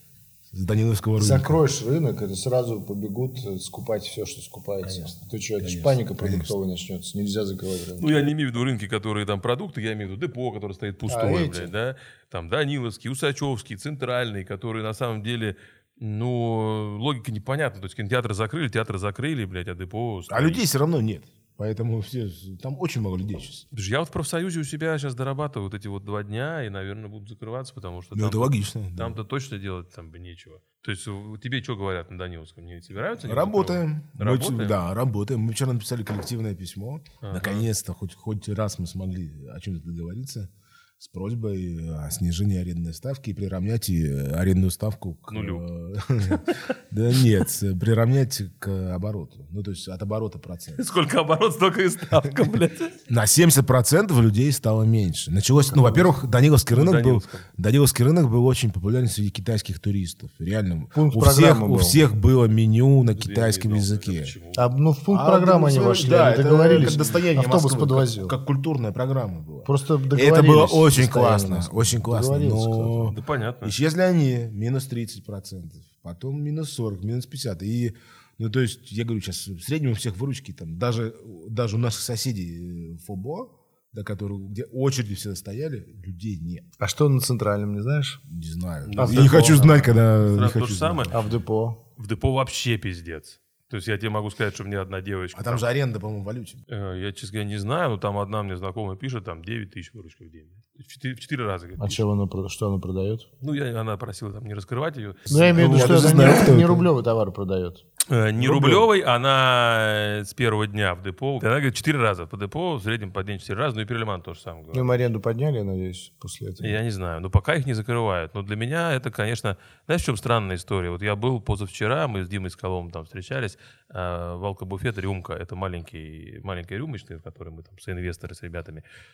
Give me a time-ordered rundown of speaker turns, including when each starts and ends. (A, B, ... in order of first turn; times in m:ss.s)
0:00.5-0:01.6 A
0:01.2-0:08.2 B
0:04.8-0:06.5 A
0:08.0-0:20.6 C
0:11.1-0:11.7 B
0:20.3-0:23.7 A
0:23.7-0:34.8 C
0:28.1-0:29.2 A
0:33.2-0:50.8 A
0:37.2-0:37.7 C
0:45.3-0:45.6 C
0:46.3-0:46.6 C
0:50.8-0:53.0 C
0:53.1-1:04.4 A
0:55.7-0:56.1 B
0:56.7-0:57.4 C
1:01.0-1:02.0 B
1:03.2-1:04.7 C
1:04.5-1:08.4 B
1:05.1-1:26.7 A
1:06.7-1:07.2 C
1:09.6-1:13.2 B
1:13.1-1:13.8 C
1:26.8-1:28.2 B
1:28.3-1:31.3 A
1:28.8-1:31.2 C
1:29.0-1:30.0 B
1:31.1-1:31.8 B
1:32.0-1:35.6 C
1:35.3-1:36.6 A
1:36.7-1:42.0 C
1:41.8-1:43.3 B
1:43.4-1:46.2 C
1:45.3-1:46.9 A
1:45.3-1:47.8 B
1:48.1-1:54.9 C
1:48.4-1:48.8 B
1:54.7-1:56.8 B
1:56.6-2:08.8 C